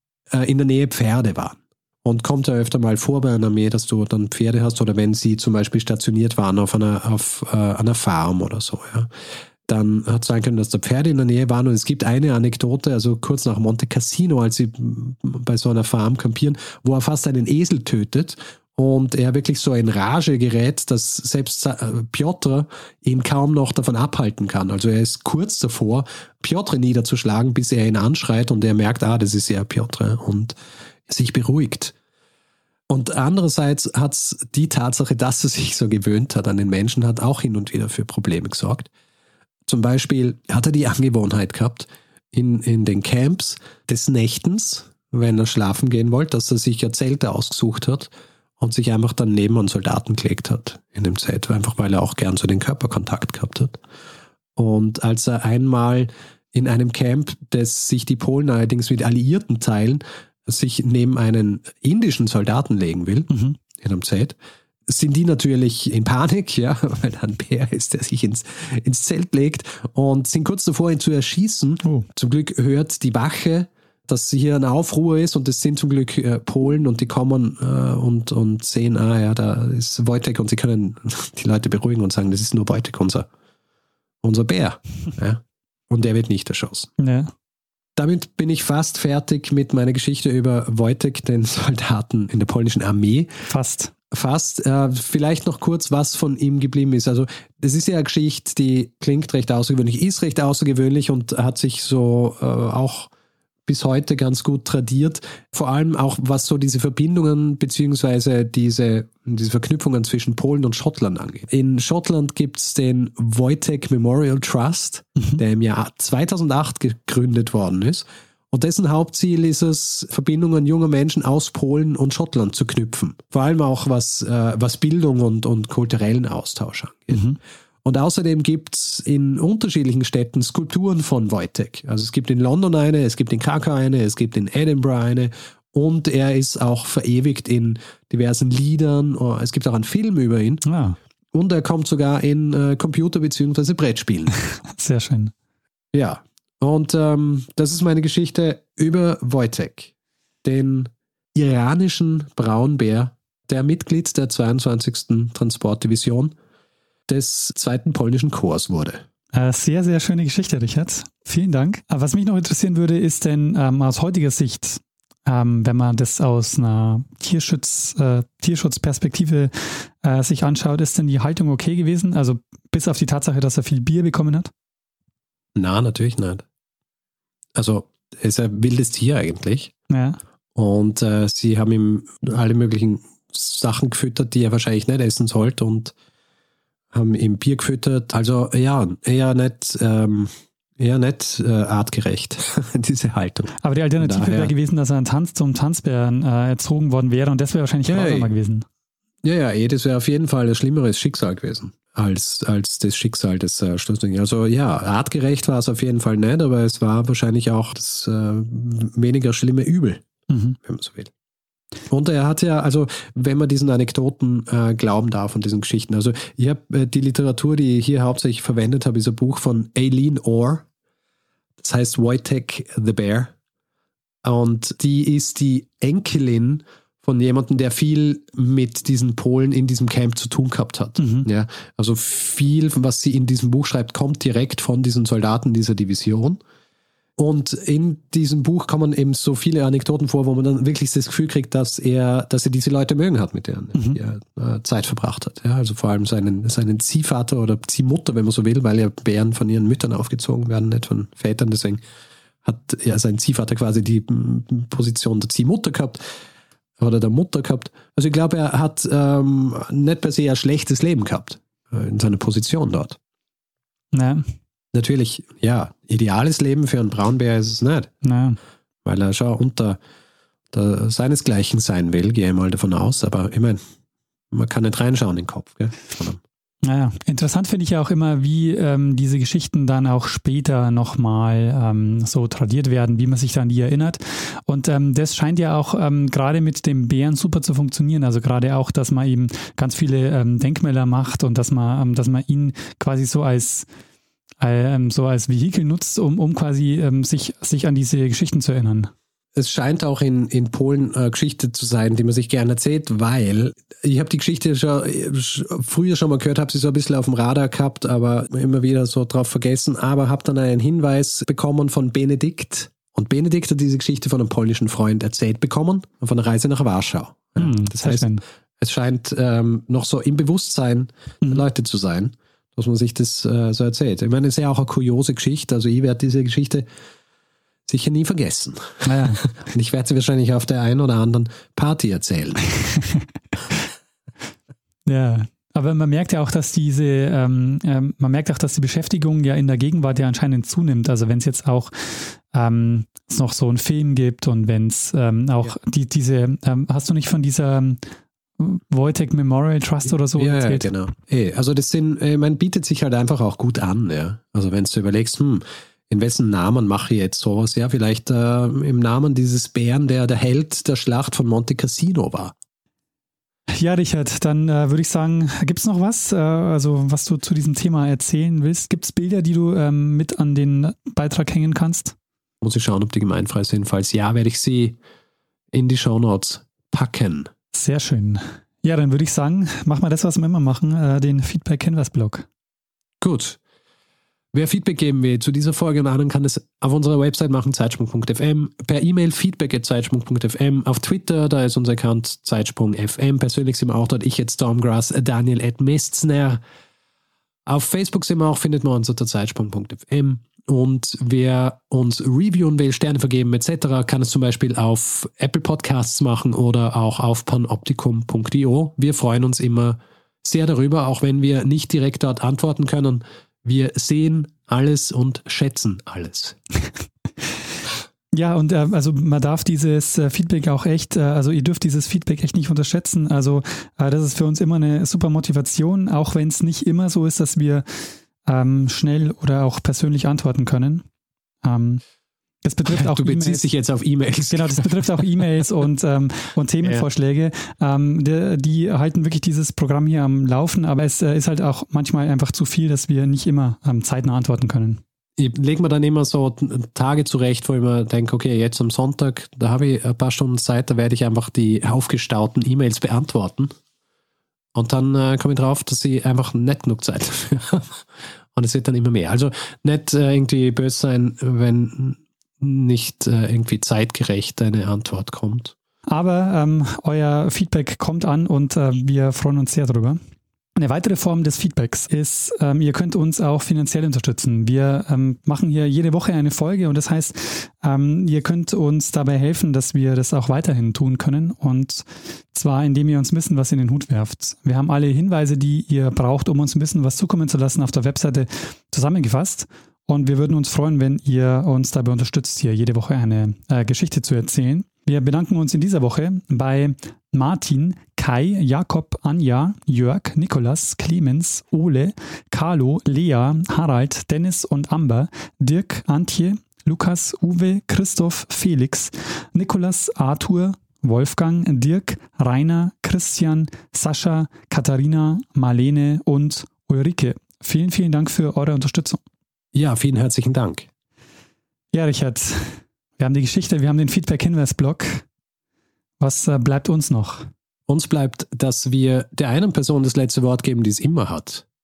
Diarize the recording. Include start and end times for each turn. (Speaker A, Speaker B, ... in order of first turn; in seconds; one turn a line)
Speaker A: 0.3-9.1
Speaker A: 9.7-30.6
Speaker A: 31.1-31.9
Speaker A: 32.9-38.9
Speaker A: 39.7-53.8
Speaker A: 54.6-64.3
Speaker B: 63.3-63.6
Speaker A: 64.9-83.3
Speaker A: 84.2-86.9
Speaker B: 87.0-87.3
Speaker A: 88.0-93.3
Speaker B: 93.5-93.9
Speaker A: 94.1-103.1
Speaker A: 103.7-127.3
Speaker A: 127.8-140.6
Speaker B: 140.7-141.0
Speaker A: 141.3-144.4
Speaker B: 144.7-145.3
Speaker A: 145.9-149.9
Speaker A: 150.4-156.3
Speaker A: 157.1-159.0
Speaker B: 159.3-174.5
Speaker A: 175.6-176.4
Speaker A: 177.6-179.7
Speaker B: 179.9-180.2
Speaker A: 180.6-185.9
Speaker A: 186.9-194.5
Speaker B: 193.6-198.7
Speaker A: 197.9-198.3
Speaker A: 199.2-210.1
Speaker B: 210.3-210.6
Speaker A: 210.6-211.1
Speaker A: 211.9-220.7
Speaker A: 221.6-223.3
Speaker A: 224.2-236.4
Speaker B: 231.0-231.3
Speaker A: 237.2-251.8
Speaker A: 252.4-256.0
Speaker A: 256.8-263.0
Speaker B: 263.9-264.2
Speaker A: 264.7-267.9
Speaker B: 268.0-268.4
Speaker A: 268.9-269.8
Speaker A: 270.5-273.6
Speaker A: 274.3-276.2
Speaker B: 276.6-293.7
Speaker B: 294.4-298.9
Speaker A: 299.4-326.7
Speaker B: 317.4-318.2
Speaker A: 327.7-332.5
Speaker B: 328.8-329.2
Speaker B: 334.9-347.8
Speaker B: 348.4-350.7
Speaker A: 350.2-362.3
Speaker B: 363.5-372.0
Speaker A: 372.4-374.8
Speaker A: 375.5-377.3
Speaker B: 377.5-382.3
Speaker A: 383.0-383.4
Speaker A: 384.3-396.4
Speaker A: 397.5-416.4
Speaker B: 418.1-427.7
Speaker B: 428.2-430.9
Speaker B: 431.4-431.8
Speaker B: 432.4-433.4
Speaker A: 432.6-435.0
Speaker B: 434.3-444.8
Speaker A: 445.2-453.5
Speaker A: 454.6-457.8
Speaker A: 458.3-465.6
Speaker B: 465.9-470.0
Speaker B: 470.6-519.0
Speaker A: 519.5-520.7
Speaker B: 521.7-525.0
Speaker B: 526.0-527.3
Speaker A: 527.7-531.4